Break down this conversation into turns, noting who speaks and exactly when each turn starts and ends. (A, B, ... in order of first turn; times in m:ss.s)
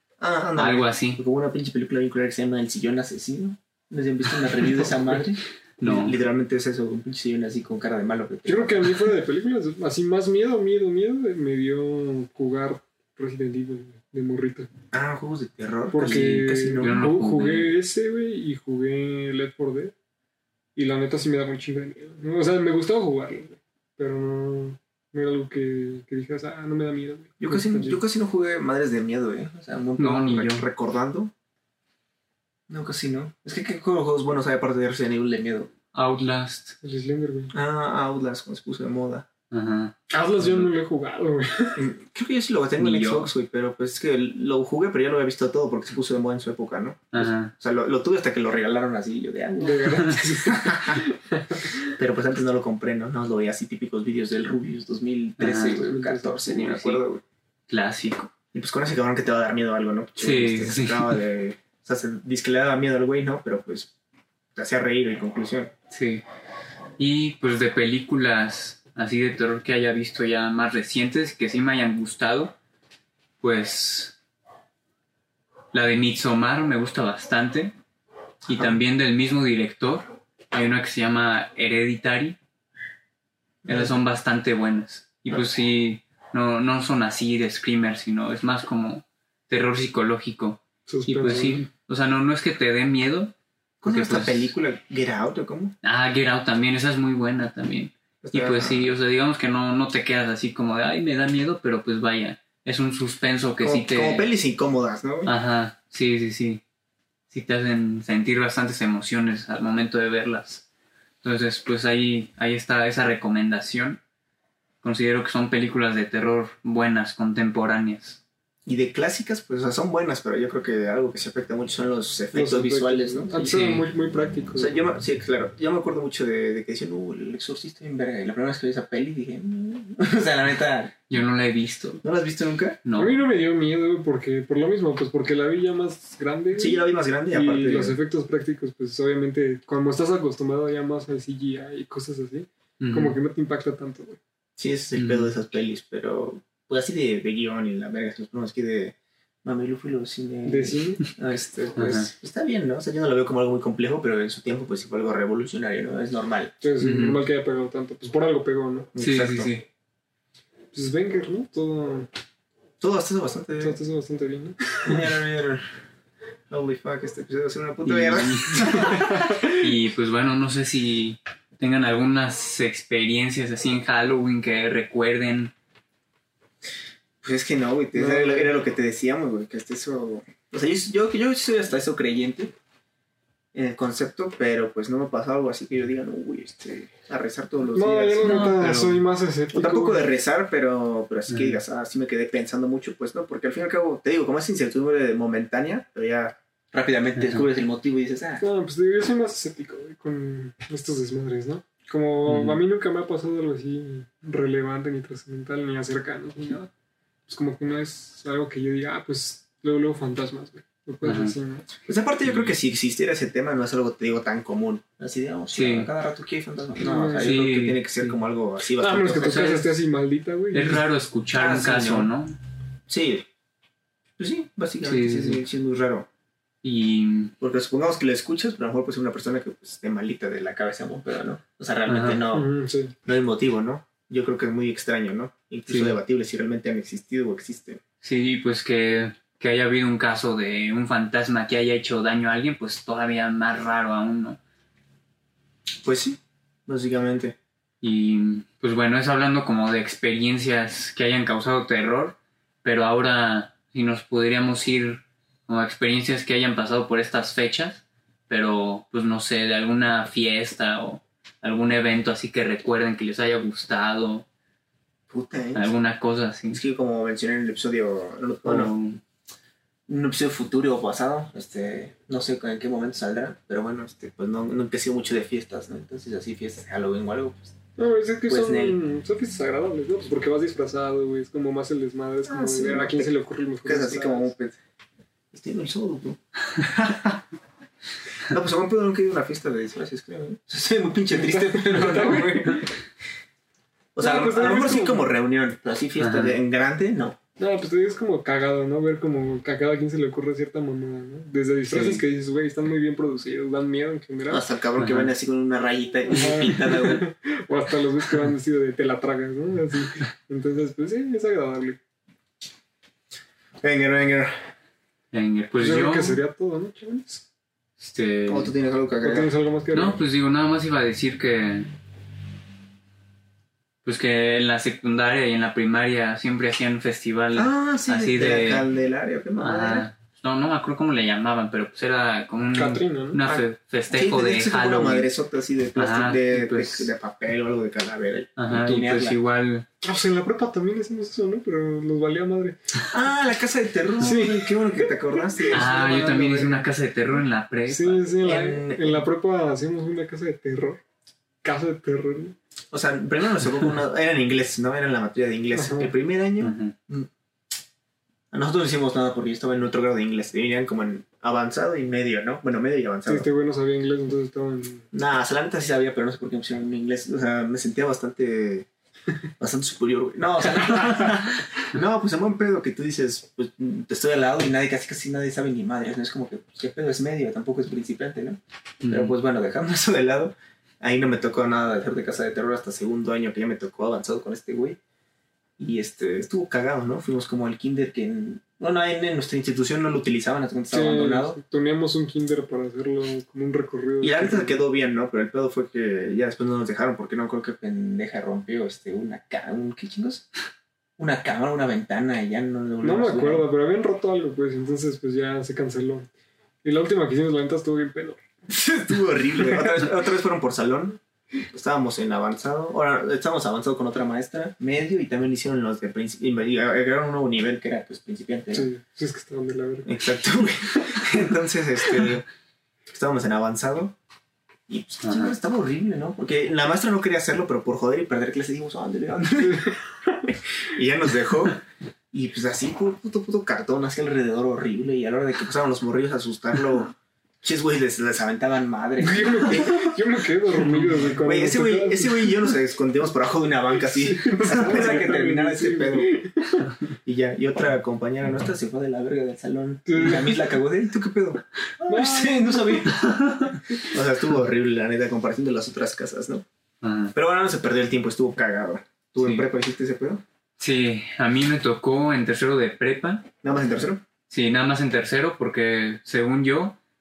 0:00.2-0:09.0 A
0:00.6-0:01.2 B
0:05.8-0:06.2 B
0:08.5-0:14.7 C
0:14.9-0:17.2 A
0:15.9-0:19.9 C
0:16.8-0:17.7 B
0:20.8-0:28.0 C
0:27.4-0:31.3 A
0:30.0-0:30.7 B
0:32.7-0:35.7 A
0:35.9-0:36.8 B
0:36.8-0:37.5 C
0:37.5-0:39.3 A
0:39.5-0:40.7 B
0:40.1-0:41.8 C
0:41.8-0:51.0 A
0:42.8-0:43.3 B
0:47.1-0:47.5 B
0:49.6-0:51.9 C
0:49.9-0:50.2 B
0:52.0-0:57.2 A
0:55.4-0:57.0 B
0:55.5-0:56.3 C
0:57.7-0:58.3 B
0:58.5-1:03.9 A
1:00.2-1:01.2 B
1:04.6-1:05.7 A
1:05.9-1:06.2 B
1:07.0-1:12.5 B
1:13.4-1:14.2 B
1:15.7-1:17.7 B
1:18.5-1:22.4 B
1:18.5-1:18.8 A
1:23.6-1:24.0 A
1:23.7-1:33.3 B
1:30.9-1:31.7 C
1:33.8-1:35.7 A
1:33.8-1:34.5 B
1:35.8-1:44.3 B
1:38.2-1:38.9 A
1:43.6-1:45.3 A
1:45.3-1:46.6 B
1:47.3-1:50.6 B
1:51.2-1:54.0 B
1:54.8-1:58.2 B
1:58.7-2:03.5 A
2:02.3-2:04.8 C
2:03.4-2:03.8 B
2:04.6-2:11.0 A
2:11.1-2:12.0 B
2:12.0-2:12.8 A
2:12.8-2:13.2 B
2:13.0-2:16.8 C
2:16.6-2:18.0 A
2:17.3-2:24.2 C
2:22.8-2:23.2 B
2:24.6-2:36.5 A
2:25.0-2:25.3 B
2:30.4-2:31.0 C
2:31.8-2:32.1 B
2:36.6-2:38.9 C
2:36.8-2:37.2 B
2:39.0-2:39.5 A
2:39.0-2:39.7 B
2:40.7-2:42.1 C
2:42.8-2:43.8 A
2:43.6-2:45.1 C
2:44.8-2:45.8 A
2:46.5-2:49.2 A
2:47.8-2:55.5 B
2:48.8-2:49.7 C
2:57.2-3:02.5 A
2:58.0-2:58.5 C
3:03.5-3:08.6 A
3:07.7-3:10.0 C
3:08.2-3:09.0 B
3:09.5-3:18.4 A
3:11.3-3:11.6 B
3:17.2-3:17.4 B
3:18.4-3:26.7 C
3:22.3-3:22.6 B
3:27.3-3:31.7 C
3:31.0-3:31.4 B
3:31.8-3:39.6 A
3:32.3-3:32.6 B
3:35.5-3:35.9 B
3:36.8-3:37.4 C
3:37.2-3:38.2 B
3:38.8-3:40.8 C
3:39.2-3:39.6 B
3:40.5-3:42.4 B
3:41.4-3:42.1 A
3:42.9-3:43.3 A
3:44.2-3:46.1 A
3:44.8-3:45.4 B
3:46.6-3:47.3 B
3:47.4-3:52.5 A
3:51.9-3:52.2 B
3:52.3-3:52.9 C
3:53.0-3:57.8 A
3:55.7-3:56.0 B
3:58.0-4:04.4 B
4:05.8-4:07.4 A
4:07.8-4:24.3 B
4:25.1-4:25.7 A
4:25.6-4:26.6 B
4:26.5-4:28.7 A
4:28.4-4:29.0 B
4:29.9-4:37.6 A
4:37.8-4:44.3 C
4:38.3-4:38.8 A
4:42.3-4:43.1 A
4:43.6-4:44.6 A
4:45.3-4:47.2 A
4:48.2-4:52.7 A
4:51.1-4:52.6 C
4:54.0-4:57.2 A
4:54.0-4:55.1 C
4:56.0-4:56.4 B
4:57.4-5:04.4 C
5:01.7-5:02.0 B
5:04.3-5:07.0 A
5:04.8-5:05.1 B
5:06.1-5:11.8 C
5:13.6-5:14.5 A
5:15.1-5:16.2 B
5:15.6-5:17.2 C
5:17.8-5:18.5 B
5:18.3-5:19.3 A
5:19.0-5:20.0 C
5:19.7-5:21.7 B
5:23.8-5:28.7 B
5:27.4-5:29.9 A
5:29.4-5:35.1 B
5:32.5-5:33.2 C
5:33.2-5:39.2 A
5:35.8-5:36.9 B
5:38.4-5:39.7 B
5:39.8-5:42.6 C
5:42.9-5:46.6 A
5:44.0-5:45.7 C
5:45.5-5:48.2 B
5:47.7-5:50.8 C
5:48.2-5:49.0 A
5:51.4-5:52.4 C
5:52.7-5:57.1 A
5:55.5-5:55.9 C
5:56.4-5:56.8 B
5:58.3-6:03.3 A
6:03.1-6:04.9 C
6:04.9-6:08.7 A
6:09.4-6:24.8 A
6:18.8-6:19.1 B
6:25.6-6:31.4 A
6:30.7-6:34.6 C
6:34.0-6:40.3 A
6:41.0-6:43.5 A
6:42.8-6:46.1 C
6:46.6-6:48.2 C
6:48.5-6:51.0 A
6:49.4-6:49.8 C
6:51.5-6:58.7 A
6:58.5-7:01.2 C
6:59.8-7:02.2 A
7:02.9-7:04.0 A
7:04.7-7:09.8 A
7:05.0-7:05.4 B
7:09.4-7:10.4 C
7:10.7-7:11.6 A
7:12.1-7:20.0 A
7:19.0-7:22.6 C
7:20.6-7:21.2 B
7:21.2-7:26.1 A
7:23.9-7:26.8 C
7:27.1-7:33.1 A
7:29.9-7:30.6 C
7:31.9-7:33.0 C
7:33.0-7:33.6 B
7:33.8-7:36.4 A
7:36.8-7:37.1 B
7:37.1-7:40.2 A
7:39.2-7:39.5 B
7:40.6-7:43.3 B
7:43.4-7:44.0 A
7:44.3-7:46.8 B